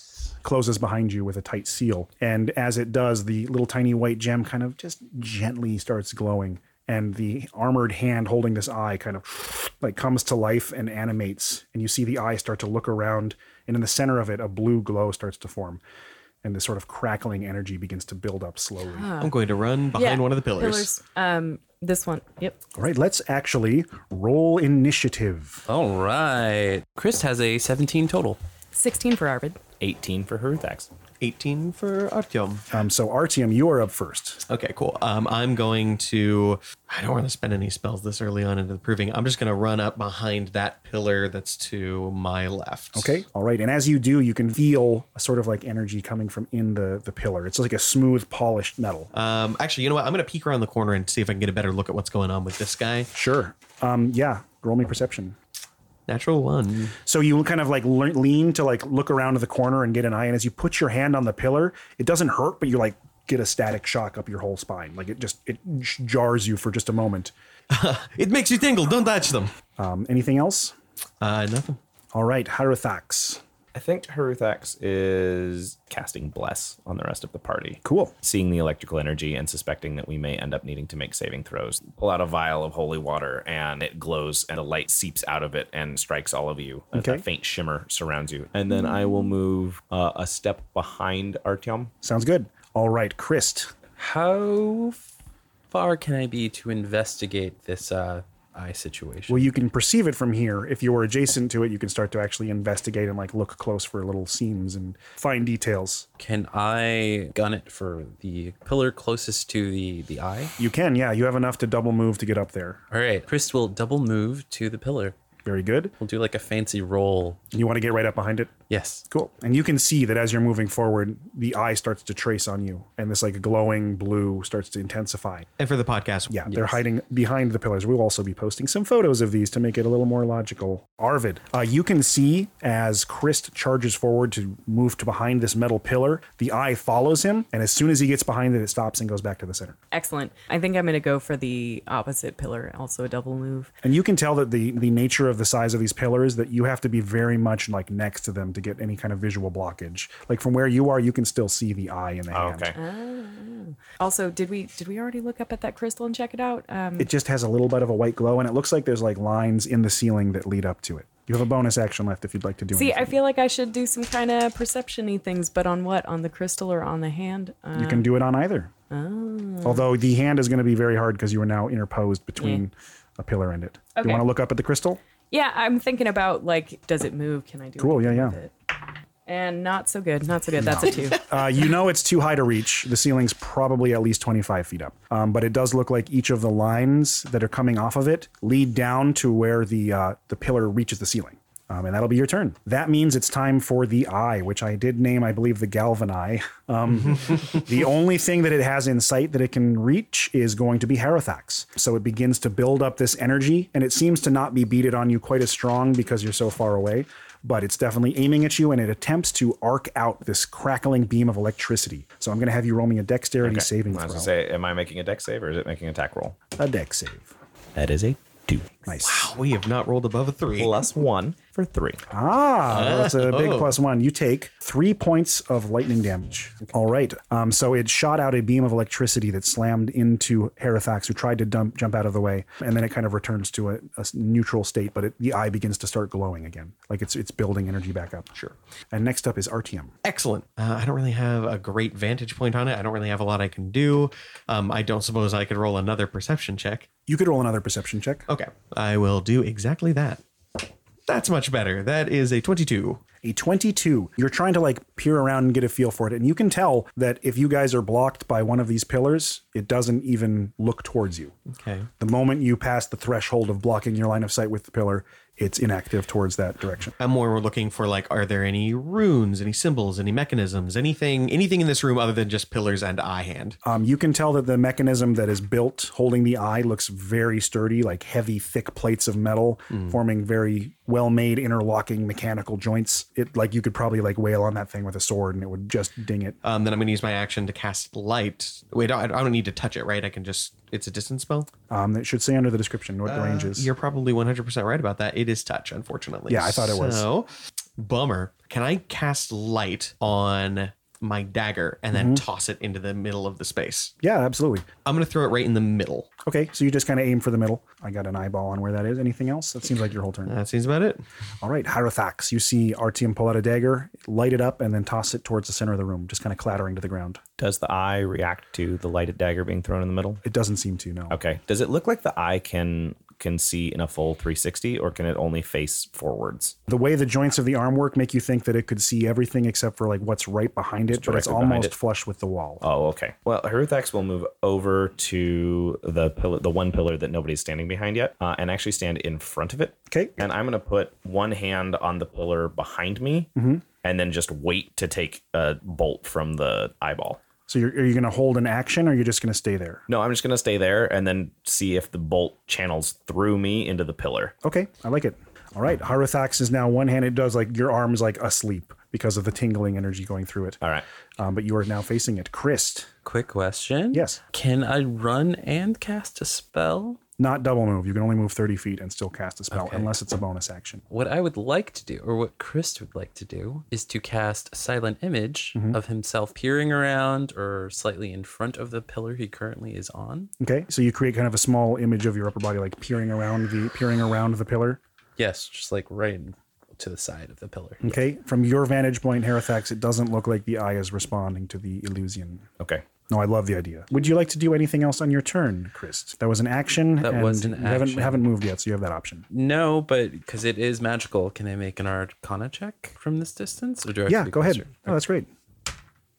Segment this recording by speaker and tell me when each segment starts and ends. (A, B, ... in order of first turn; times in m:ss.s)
0:00.4-0:15.8 A
0:16.4-0:19.1 A
0:18.9-0:19.3 B
0:19.2-0:20.9 C
0:19.9-0:22.6 B
0:22.7-0:25.6 A
0:25.7-0:28.4 D
0:28.7-0:29.6 B
0:29.8-0:30.9 E
0:31.2-0:32.6 C
0:32.7-0:34.4 A
0:34.5-0:43.2 C
0:42.9-0:49.1 A
0:49.1-0:53.1 C
0:53.1-0:55.4 A
0:56.1-0:57.0 C
0:57.0-1:07.3 A
1:07.7-1:09.5 C
1:09.8-1:10.7 A
1:11.2-1:11.8 C
1:12.1-1:13.4 A
1:13.7-1:31.9 E
1:17.8-1:18.1 A
1:26.9-1:27.2 A
1:32.0-1:33.7 A
1:34.0-1:35.0 D
1:35.7-1:39.5 D
1:39.3-1:46.1 A
1:46.2-1:50.5 D
1:50.6-1:52.8 A
1:52.9-1:55.1 D
1:55.4-1:55.9 A
1:56.0-1:57.4 D
1:57.5-1:58.5 A
1:58.7-1:59.0 D
1:59.1-2:05.5 A
2:05.6-2:06.4 C
2:06.3-2:19.8 A
2:06.5-2:06.7 D
2:19.9-2:23.7 B
2:23.8-2:32.7 A
2:32.3-2:32.8 E
2:32.7-2:37.1 B
2:37.0-2:43.2 A
2:42.7-2:48.0 B
2:47.7-2:48.7 A
2:48.9-2:49.9 B
2:49.6-2:55.0 A
2:54.0-2:54.3 B
2:55.3-2:58.5 B
2:57.8-2:58.4 A
2:59.2-3:01.2 B
3:00.6-3:34.3 A
3:33.4-3:36.4 E
3:36.6-3:37.3 A
3:37.7-3:38.7 E
3:38.8-3:39.3 A
3:39.0-3:40.7 C
3:40.5-3:42.0 E
3:42.1-3:58.3 A
3:42.7-3:43.7 C
3:58.9-3:59.9 A
4:00.0-4:06.9 C
4:07.1-4:08.2 A
4:08.3-4:10.2 C
4:11.1-4:13.0 C
4:13.2-4:21.3 A
4:21.5-4:21.9 C
4:22.0-4:26.9 A
4:27.0-4:33.6 C
4:33.6-4:46.4 A
4:46.4-4:51.5 C
4:51.7-4:53.7 A
4:53.0-5:03.9 C
4:56.3-4:57.0 A
5:01.9-5:02.2 A
5:04.0-5:04.6 A
5:04.8-5:06.1 C
5:06.2-5:10.4 A
5:10.2-5:11.0 C
5:11.4-5:17.2 A
5:17.4-5:20.2 E
5:20.2-5:21.2 A
5:21.1-5:26.5 E
5:26.7-5:32.6 A
5:30.9-5:31.7 E
5:32.6-5:43.3 E
5:39.9-5:40.2 A
5:43.4-5:43.6 A
5:43.8-5:47.2 E
5:47.5-5:49.8 A
5:49.9-5:54.3 E
5:54.4-6:00.6 A
6:01.2-6:02.9 A
6:03.0-6:07.0 D
6:03.9-6:04.2 A
6:07.2-6:10.8 A
6:09.5-6:09.9 D
6:10.9-6:20.3 D
6:15.5-6:15.8 A
6:20.4-6:24.8 A
6:25.2-6:28.0 D
6:27.8-6:32.5 A
6:32.6-6:32.8 E
6:33.1-6:39.2 A
6:37.0-6:38.2 D
6:39.3-6:45.0 D
6:44.1-6:45.3 A